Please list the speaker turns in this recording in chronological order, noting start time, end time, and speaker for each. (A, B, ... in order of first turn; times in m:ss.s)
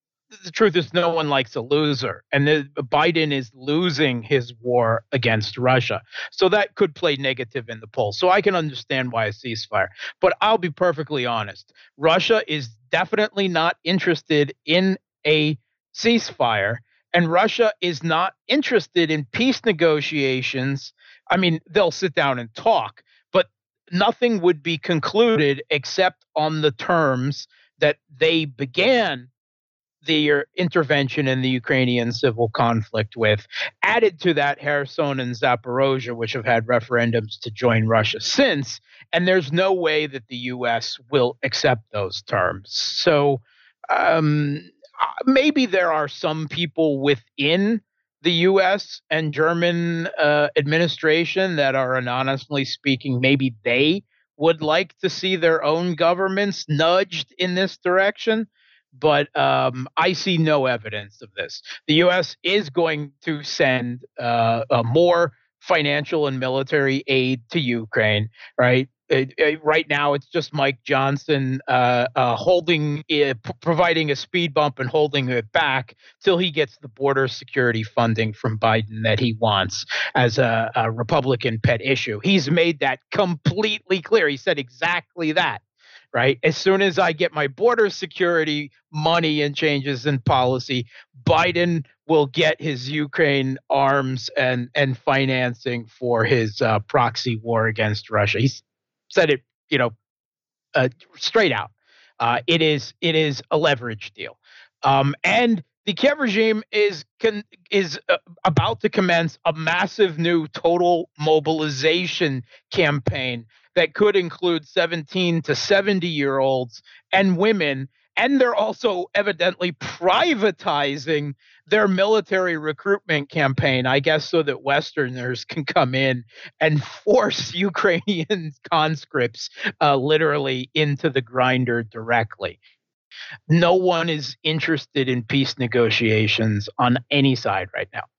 0:00.3-0:29.3 A
0:30.0-1:25.6 A
1:26.1-1:39.9 A
1:40.7-2:12.6 A
2:13.5-2:18.1 A